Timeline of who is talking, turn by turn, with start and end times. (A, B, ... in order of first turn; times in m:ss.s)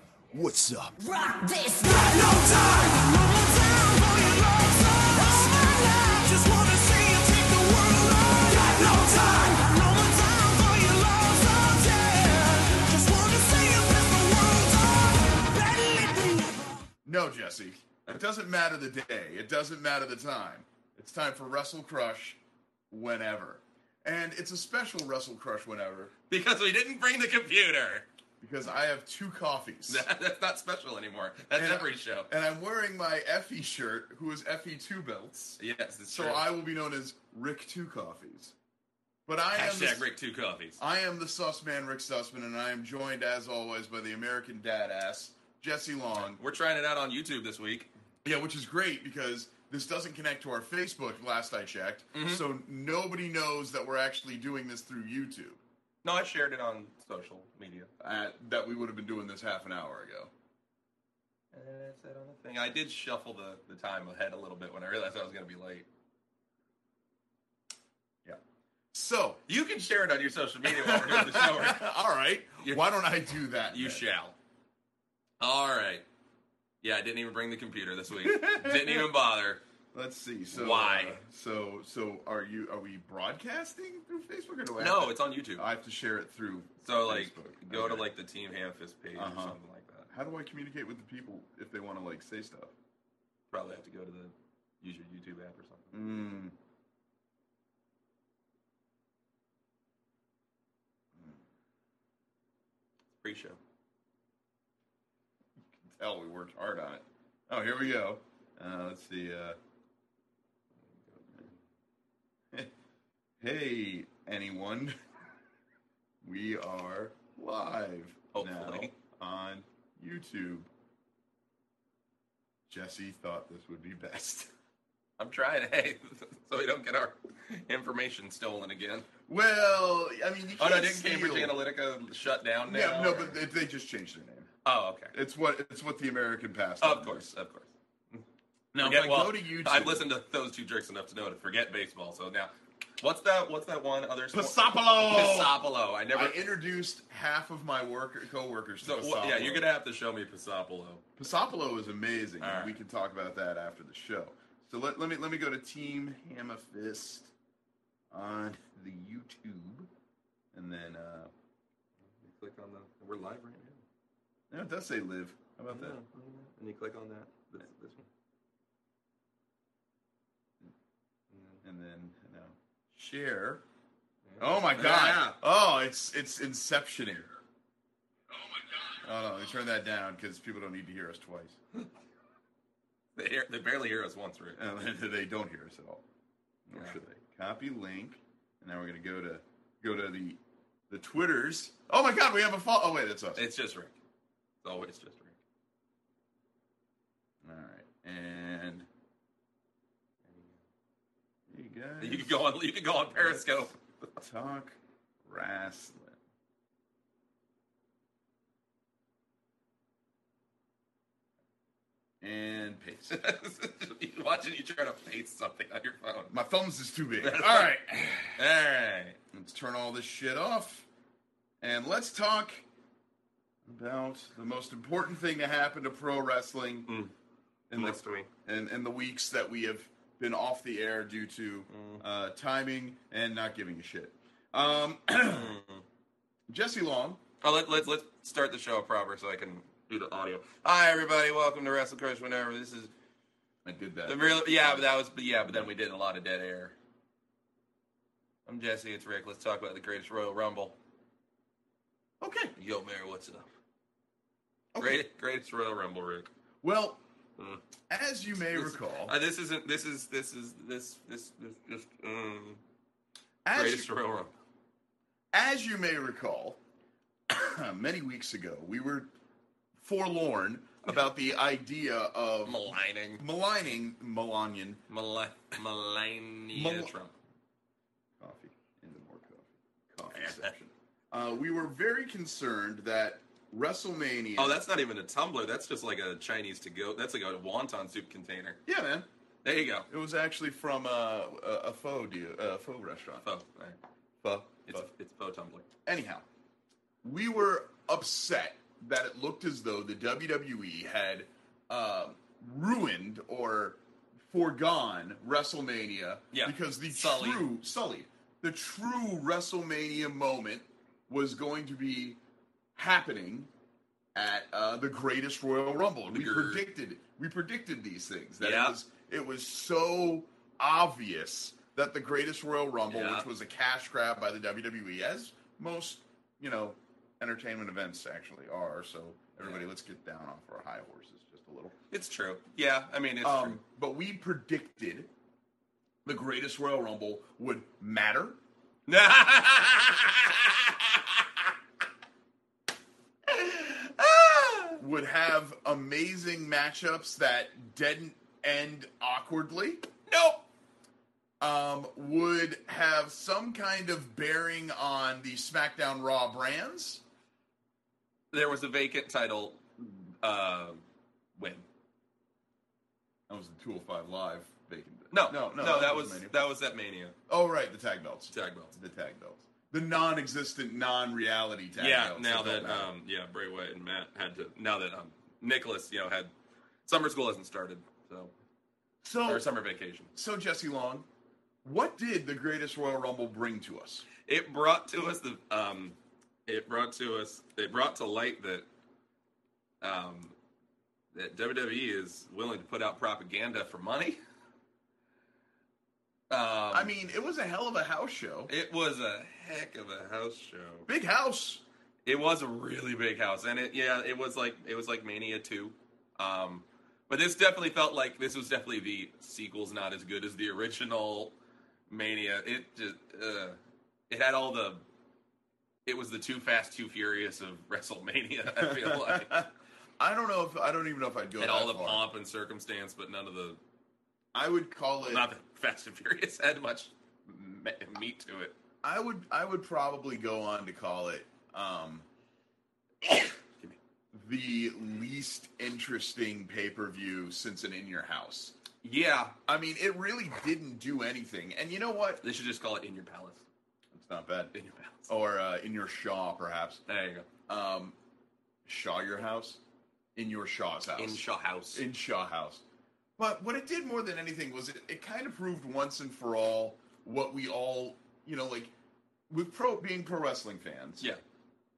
0:00.9-0:16.7 A
0:17.0-0:22.4 B
0:22.9-0:26.1 B
0:26.3-0:28.1 C
0:28.4-0:30.1 B
0:29.9-0:32.3 C
0:31.5-0:38.5 B
0:35.6-0:36.4 C
0:39.2-0:40.1 B
0:39.5-0:40.8 C
0:40.8-0:46.4 B
0:46.2-0:47.9 C
0:48.2-0:55.6 B
0:52.1-0:52.4 C
0:56.0-0:57.9 C
0:58.0-1:00.3 B
1:01.5-1:05.8 C
1:08.9-1:09.4 B
1:09.5-1:11.8 C
1:10.6-1:14.0 B
1:13.7-1:14.3 C
1:15.4-1:16.0 C
1:16.8-1:19.6 C
1:18.1-1:19.1 B
1:19.9-1:28.1 B
1:20.5-1:21.2 C
1:24.8-1:25.6 C
1:26.8-1:30.1 C
1:29.1-1:29.6 B
1:30.1-1:32.7 B
1:33.5-1:35.9 C
1:35.9-1:36.5 B
1:43.1-1:43.6 C
1:46.0-1:49.6 B
1:51.1-1:51.5 C
1:53.4-1:55.0 B
1:56.2-2:00.7 B
1:58.3-1:58.9 C
2:02.7-2:04.5 B
2:05.2-2:09.1 C
2:09.3-2:11.6 B
2:10.6-2:13.4 C
2:12.6-2:14.5 B
2:14.6-2:15.1 C
2:15.1-2:17.3 B
2:16.8-2:18.2 C
2:18.7-2:20.0 B
2:18.8-2:26.4 C
2:24.3-2:25.6 B
2:26.1-2:29.7 B
2:28.8-2:31.1 C
2:31.2-2:37.3 B
2:32.4-2:32.8 C
2:38.1-2:39.9 B
2:40.5-2:41.3 B
2:42.2-2:43.8 C
2:44.5-2:46.0 B
2:45.7-2:48.1 C
2:51.3-2:51.6 C
2:51.6-2:53.6 B
2:54.2-2:55.4 C
2:54.4-2:57.3 B
2:58.8-3:01.6 B
3:03.2-3:04.6 C
3:04.6-3:06.0 B
3:06.7-3:10.4 B
3:10.9-3:13.4 B
3:13.4-3:14.0 C
3:14.6-3:15.4 C
3:17.4-3:18.9 B
3:20.3-3:20.6 C
3:21.5-3:22.4 B
3:22.0-3:23.8 C
3:23.2-3:23.4 B
3:24.2-3:26.2 B
3:32.2-3:33.2 B
3:33.1-3:36.4 C
3:36.3-3:38.4 B
3:37.2-3:37.7 C
3:38.3-3:39.2 C
3:39.3-3:40.9 B
3:41.6-3:42.6 B
3:43.6-3:46.9 B
3:46.9-3:47.1 C
3:47.7-3:55.5 B
3:47.8-3:48.3 C
3:51.7-3:52.0 C
3:55.2-3:55.8 C
3:56.5-3:57.2 B
3:57.4-4:02.9 C
4:03.6-4:05.7 B
4:04.0-4:06.7 C
4:08.4-4:10.8 C
4:12.2-4:12.5 B
4:12.6-4:13.5 C
4:14.7-4:15.0 B
4:14.8-4:16.3 C
4:16.6-4:17.0 B
4:17.9-4:19.1 B
4:18.5-4:22.6 C
4:23.4-4:23.9 B
4:23.5-4:24.3 C
4:25.3-4:26.6 B
4:27.3-4:29.1 B
4:29.8-4:32.6 B
4:32.4-4:33.2 C
4:33.2-4:34.8 B
4:34.9-4:37.2 C
4:36.5-4:36.9 B
4:38.2-4:44.6 B
4:40.1-4:40.5 C
4:44.4-4:48.6 C
4:48.6-4:49.1 B
4:49.4-4:49.9 C
4:49.9-4:53.2 B
4:53.2-4:53.8 C
4:54.2-4:54.8 B
4:54.6-4:55.7 C
4:55.8-4:56.2 B
4:57.0-5:12.2 B
5:06.3-5:07.5 C
5:12.7-5:13.5 B
5:14.1-5:31.8 B
5:16.1-5:16.6 C
5:18.4-5:18.8 C
5:22.9-5:23.3 C
5:31.9-5:33.6 C
5:33.2-5:35.1 B
5:36.0-5:38.4 B
5:38.9-5:41.2 C
5:43.3-5:44.8 C
5:44.8-5:49.8 B
5:50.1-5:50.4 C
5:51.4-5:57.0 B
5:58.3-5:59.6 C
6:00.2-6:00.8 C
6:01.4-6:01.6 C
6:03.3-6:06.4 B
6:05.1-6:07.2 C
6:07.3-6:12.9 B
6:08.3-6:08.8 C
6:11.8-6:16.3 C
6:16.8-6:18.3 C
6:19.0-6:19.5 B
6:19.2-6:20.1 C
6:20.1-6:21.0 B
6:21.6-6:24.0 B
6:24.3-6:28.6 C
6:29.8-6:30.3 C
6:31.1-6:34.2 C
6:36.3-6:36.9 C
6:36.7-6:38.5 B
6:38.5-6:40.9 C
6:40.9-6:41.6 B
6:42.0-6:51.3 C
6:51.9-6:53.6 C
6:54.1-6:54.8 C
6:55.8-6:59.4 C
6:58.6-6:59.5 B
7:00.0-7:02.0 B
7:01.4-7:03.6 C
7:04.3-7:05.2 B
7:05.1-7:08.5 C
7:08.8-7:12.0 B
7:14.1-7:18.5 B
7:18.8-7:19.3 C
7:19.5-7:22.2 B
7:22.2-7:23.4 C
7:23.9-7:24.5 B
7:24.5-7:25.1 C
7:25.1-7:26.8 B
7:26.9-7:27.3 C
7:27.5-7:28.0 B
7:28.6-7:29.6 B
7:30.2-7:32.6 B
7:31.0-7:31.8 C
7:33.2-7:38.7 B
7:39.3-7:41.1 B